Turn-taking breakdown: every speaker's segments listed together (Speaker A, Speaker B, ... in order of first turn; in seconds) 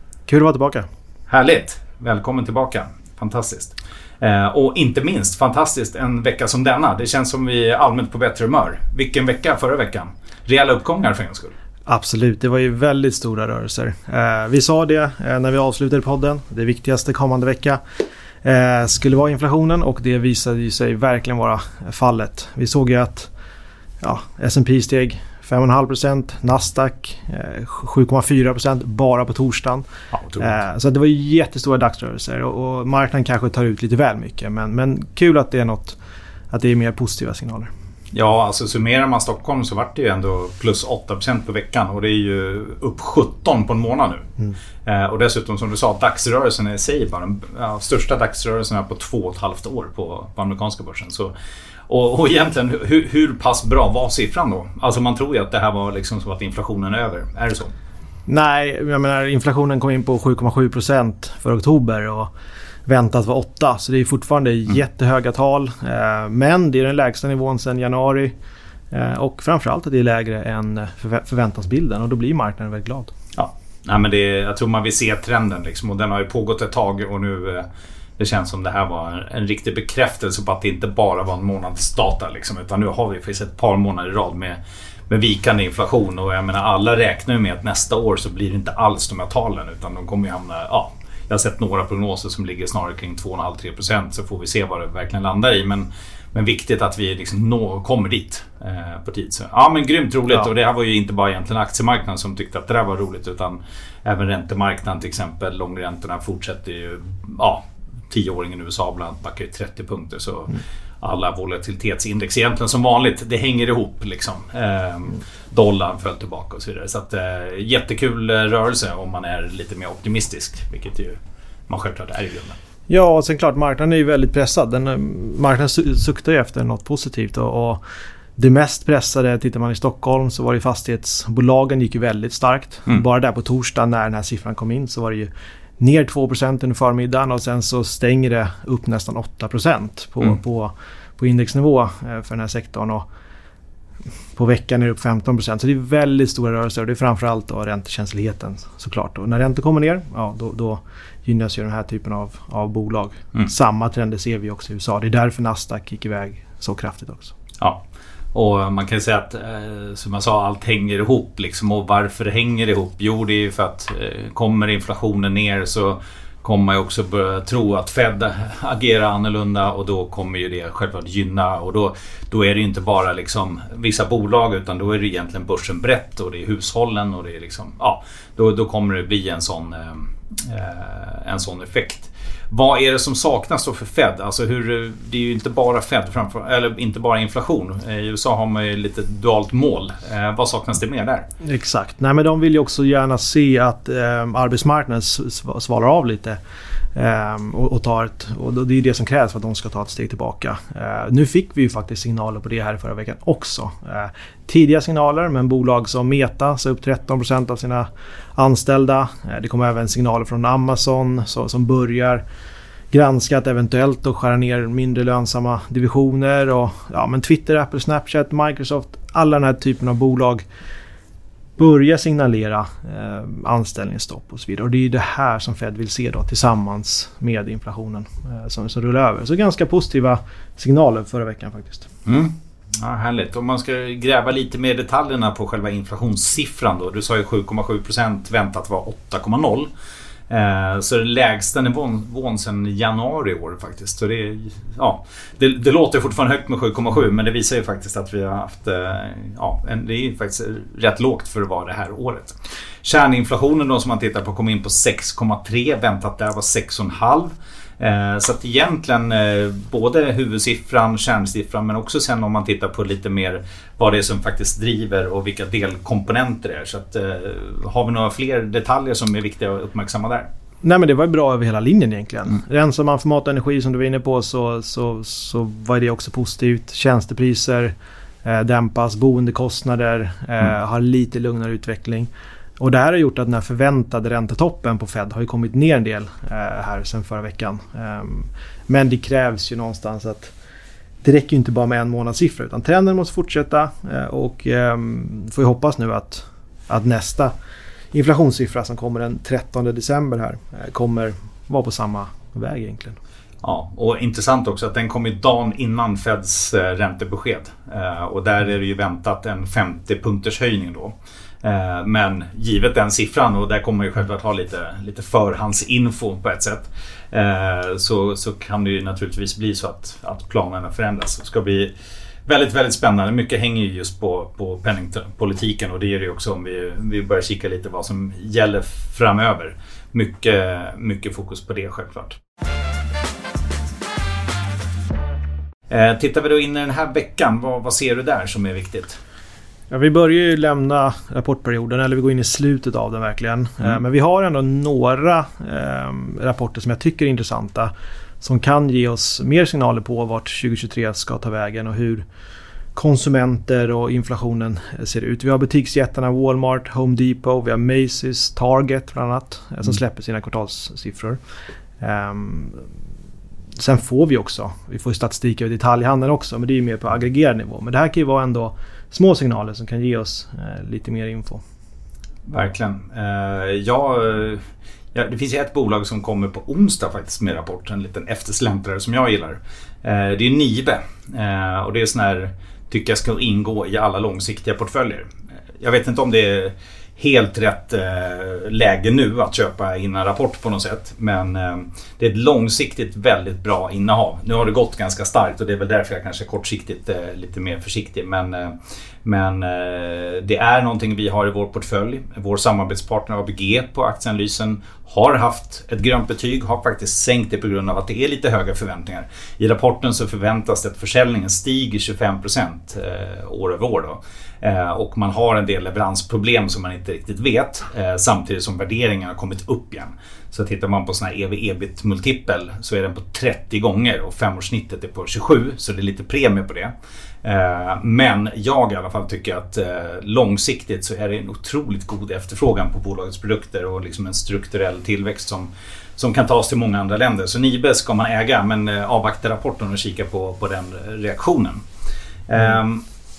Speaker A: 0.3-0.9, 11.8-17.8, 18.4-23.3, 24.0-29.8, 30.4-36.0, 36.5-37.7, 58.3-62.3, 62.9-68.3, 68.9-73.1, 122.9-127.8, 128.4-143.0, 144.3-157.3, 191.4-196.4, 196.9-212.2, 212.9-220.4, 221.6-231.9, 270.6-290.3, 291.0-297.3, 297.9-303.0, 339.7-347.7, 348.2-352.0, 352.7-361.2, 361.8-362.6, 363.6-371.4
Speaker B: 1.3-11.5, 30.1-30.6, 38.1-44.2, 44.8-51.3, 51.9-57.7, 73.3-77.7, 78.2-121.2, 121.7-122.6, 158.3-191.2, 232.1-239.7, 240.3-270.3, 303.4-321.7, 322.2-332.2, 335.7-339.0, 372.3-374.4, 374.9-385.0, 385.6-426.7, 427.2-441.6, 442.3-442.8